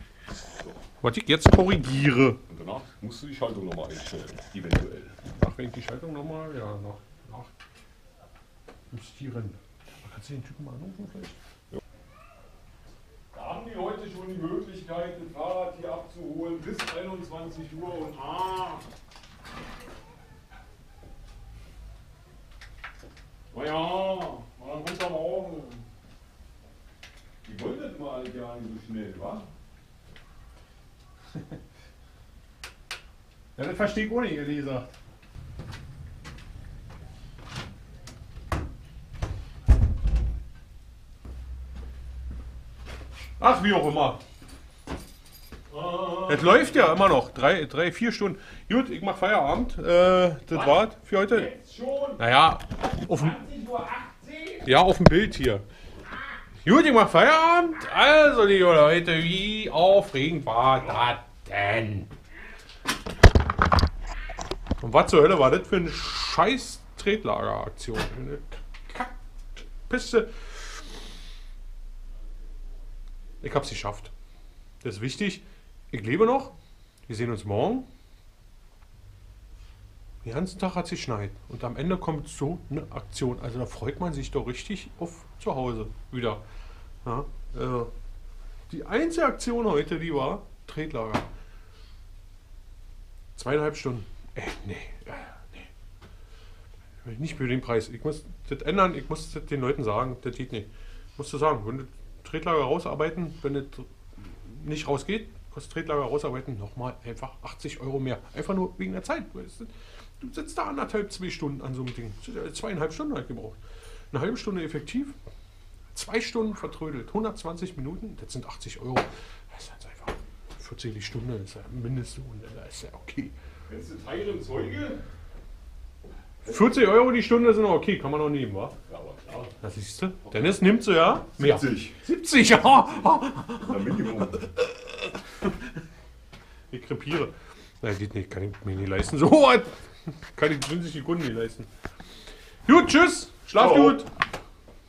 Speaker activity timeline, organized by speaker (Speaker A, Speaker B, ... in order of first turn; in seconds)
Speaker A: 1.0-2.4, 5.3-7.5, 8.9-11.4, 33.5-34.9, 43.4-44.2, 46.3-51.5, 52.2-53.4, 54.6-55.6, 56.6-62.1, 64.8-70.7, 73.4-74.1, 74.8-76.5, 77.1-77.9, 80.2-86.4, 87.0-87.9, 88.7-91.3, 93.3-95.7, 97.0-103.9, 104.4-113.6, 114.1-115.2, 115.9-123.3, 126.5-128.8, 129.6-134.6, 136.7-141.7, 142.7-144.1
Speaker B: 2.5-5.2, 13.3-18.9, 23.5-25.8, 27.4-29.5, 45.7-46.9, 50.5-52.3, 52.8-54.7, 123.7-125.1, 128.9-129.5, 130.3-130.6, 131.3-132.0, 133.6-134.5, 143.5-144.0